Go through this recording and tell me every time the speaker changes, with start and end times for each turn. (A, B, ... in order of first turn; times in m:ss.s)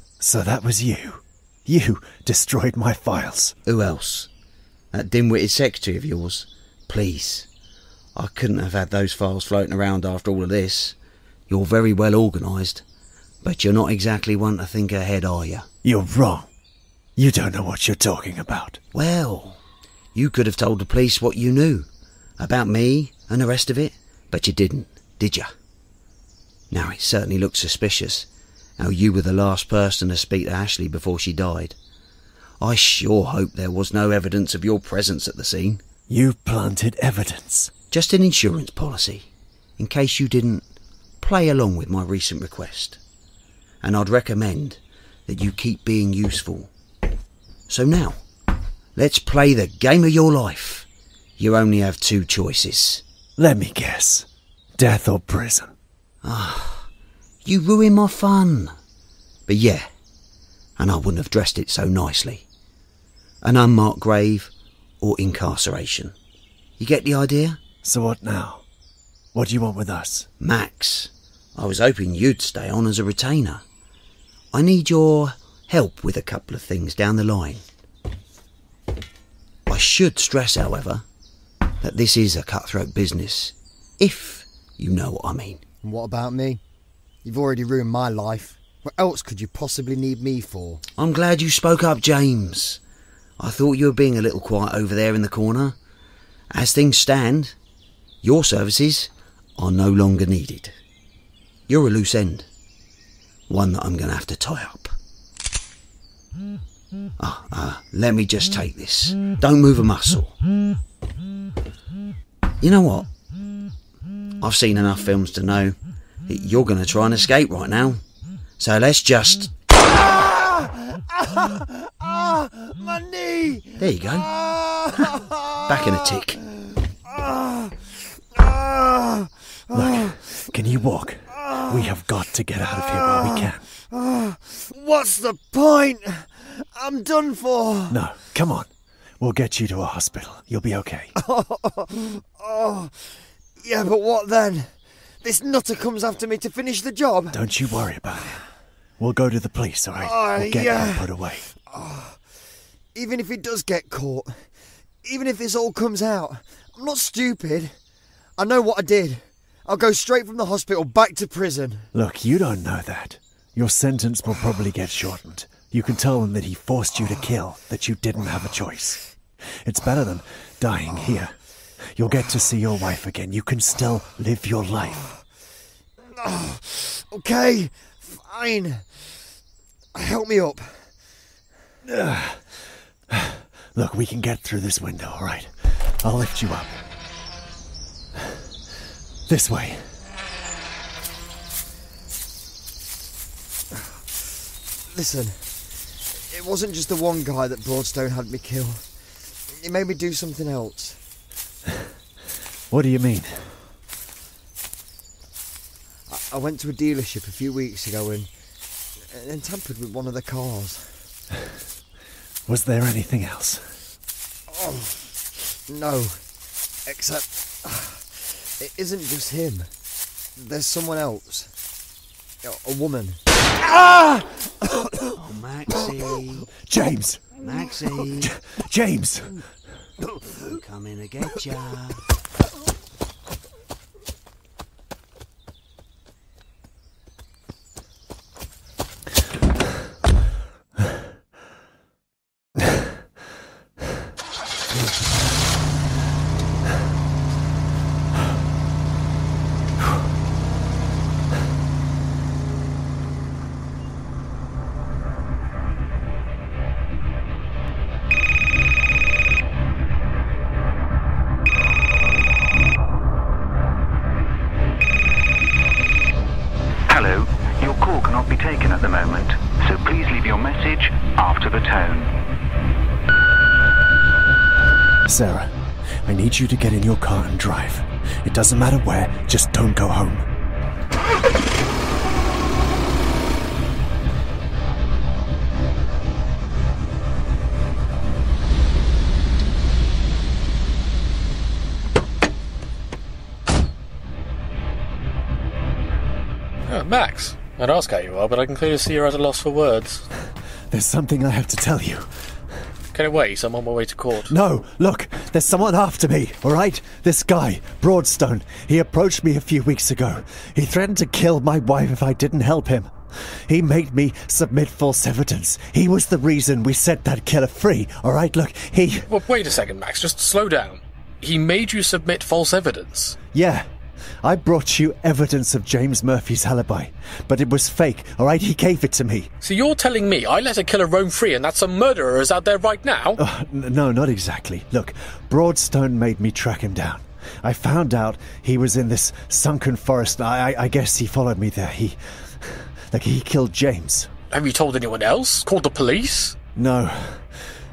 0:00.2-0:03.6 A
0:03.6-0:04.3 B
0:04.9-0:07.5 B
0:08.2-0:11.0 B
0:11.5-0:12.8 B
0:13.4-0:15.7 B
0:15.8-0:16.5 A
0:17.2-0:18.8 A
0:18.9-0:19.6 B
0:20.1-0:21.9 B
0:22.4-0:25.5 B
0:26.7-0:28.3 B
0:28.8-0:31.8 B
0:32.6-0:35.8 B
0:36.1-0:37.7 A
0:37.9-0:40.6 B
0:41.2-0:43.0 B
0:43.8-0:46.7 B
0:47.7-0:48.2 B
0:48.9-0:50.9 B
0:51.4-0:53.0 B
0:53.4-0:55.7 A
0:56.2-0:56.9 B
0:57.4-0:58.7 B
0:59.5-0:59.9 B
1:00.8-1:02.4 B
1:03.4-1:06.1 B
1:06.8-1:07.6 B
1:07.8-1:08.6 A
1:09.3-1:10.3 A
1:10.4-1:13.6 B
1:14.5-1:17.6 B
1:19.7-1:21.0 B
1:21.8-1:25.6 B
1:25.8-1:26.6 C
1:27.2-1:30.8 C
1:31.0-1:32.8 B
1:33.4-1:35.8 B
1:36.5-1:37.5 B
1:38.2-1:40.8 B
1:41.7-1:42.5 B
1:43.5-1:44.9 B
1:47.2-1:50.3 B
1:52.6-1:53.1 B
1:54.4-1:58.0 B
1:58.6-1:59.5 B
2:00.0-2:05.3 C
2:03.8-2:04.3 B
2:05.7-2:06.4 B
2:07.0-2:10.4 C
2:09.7-2:13.6 A
2:11.3-2:11.8 C
2:12.7-2:18.0 C
2:17.9-2:21.1 A
2:21.2-2:27.4 C
2:27.3-2:28.4 A
2:28.1-2:28.4 C
2:29.0-2:31.5 A
2:30.0-2:32.2 C
2:32.9-2:34.5 C
2:35.0-2:37.8 C
2:38.4-2:41.9 C
2:41.9-2:49.0 A
2:49.6-2:55.0 A
2:56.1-2:59.2 C
2:59.9-3:00.9 C
3:01.8-3:06.8 A
3:09.3-3:09.9 A
3:13.7-3:21.0 C
3:22.7-3:23.5 A
3:26.1-3:28.3 C
3:29.0-3:31.0 C
3:32.5-3:33.8 A
3:34.5-3:36.2 C
3:36.9-3:39.7 C
3:40.4-3:41.5 C
3:42.4-3:44.7 C
3:45.2-3:46.5 B
3:46.7-3:47.3 A
3:47.4-3:48.3 B
3:48.2-3:49.4 A
3:50.4-3:52.0 B
4:26.9-4:32.1 D
4:35.0-4:40.3 A
4:56.6-5:00.0 E
5:00.7-5:02.1 A
5:02.9-5:04.3 E
5:04.2-5:19.1 A
5:19.1-5:23.2 E
5:23.3-5:23.7 A
5:24.2-5:29.3 A
5:29.4-5:33.2 E
5:33.2-5:44.1 A
5:44.3-5:46.3 E
5:46.5-5:47.4 A